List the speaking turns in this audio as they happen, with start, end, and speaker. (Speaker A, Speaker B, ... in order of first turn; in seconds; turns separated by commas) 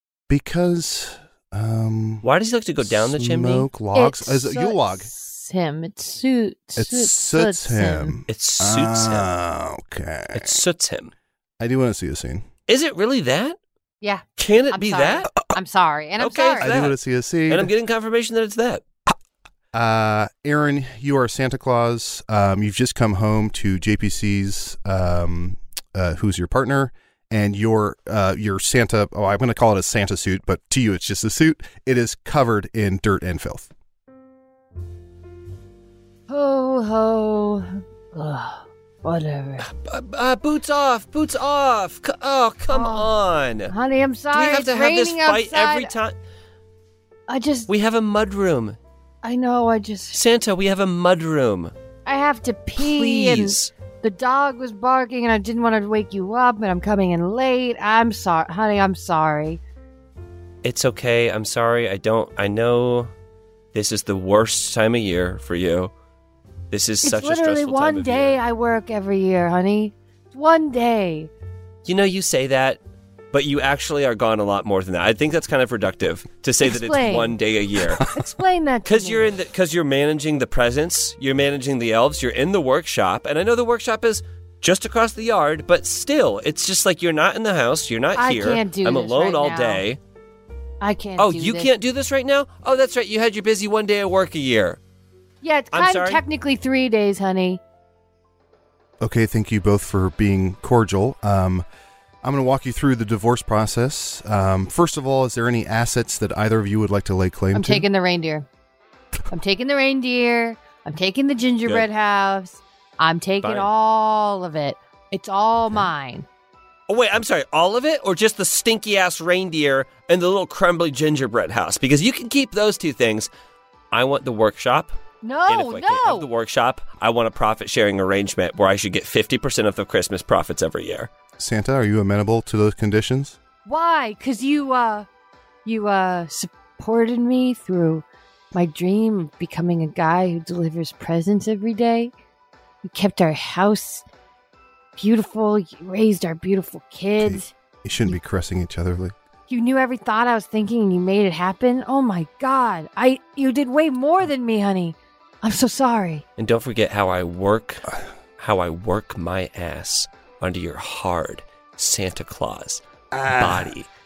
Speaker A: 0.3-2.2, Speaker B: 2.2-3.7, Speaker A: 2.8-5.1, Speaker C: 3.9-8.2, Speaker A: 6.8-10.6, Speaker B: 8.3-9.3, Speaker B: 10.3-11.1, Speaker A: 11.6-12.5, Speaker B: 12.7-13.6, Speaker C: 14.0-16.7, Speaker B: 14.4-15.3, Speaker B: 16.2-17.0, Speaker A: 16.6-17.7, Speaker B: 17.5-18.8, Speaker A: 19.7-33.7, Speaker C: 36.3-39.6, Speaker B: 39.6-43.7, Speaker C: 42.7-43.1, Speaker C: 43.7-45.9, Speaker B: 44.3-46.1, Speaker C: 47.3-47.7, Speaker B: 47.7-48.8, Speaker C: 49.2-50.2, Speaker B: 50.1-51.7, Speaker C: 52.1-59.6, Speaker B: 52.8-53.7, Speaker B: 60.6-63.1, Speaker B: 63.7-65.9, Speaker B: 66.7-68.4, Speaker C: 67.0-71.3, Speaker B: 71.8-72.8, Speaker B: 73.3-78.0, Speaker C: 76.6-77.4, Speaker C: 78.1-79.3, Speaker B: 78.9-90.0, Speaker C: 88.2-89.8, Speaker C: 90.8-91.7, Speaker B: 91.2-94.8, Speaker C: 95.4-97.6, Speaker B: 95.7-96.2, Speaker A: 99.0-101.7, Speaker A: 102.2-107.9, Speaker C: 107.5-108.5, Speaker C: 109.3-116.3, Speaker B: 113.4-113.7, Speaker B: 116.9-123.3, Speaker B: 123.9-125.0, Speaker C: 125.2-126.3, Speaker B: 125.5-131.1, Speaker A: 131.4-133.4, Speaker C: 133.7-135.1, Speaker C: 135.7-142.1, Speaker C: 142.8-144.1, Speaker C: 145.0-147.5, Speaker A: 147.2-149.1, Speaker C: 149.5-156.2, Speaker B: 156.4-162.8, Speaker A: 163.1-163.7, Speaker B: 163.4-163.9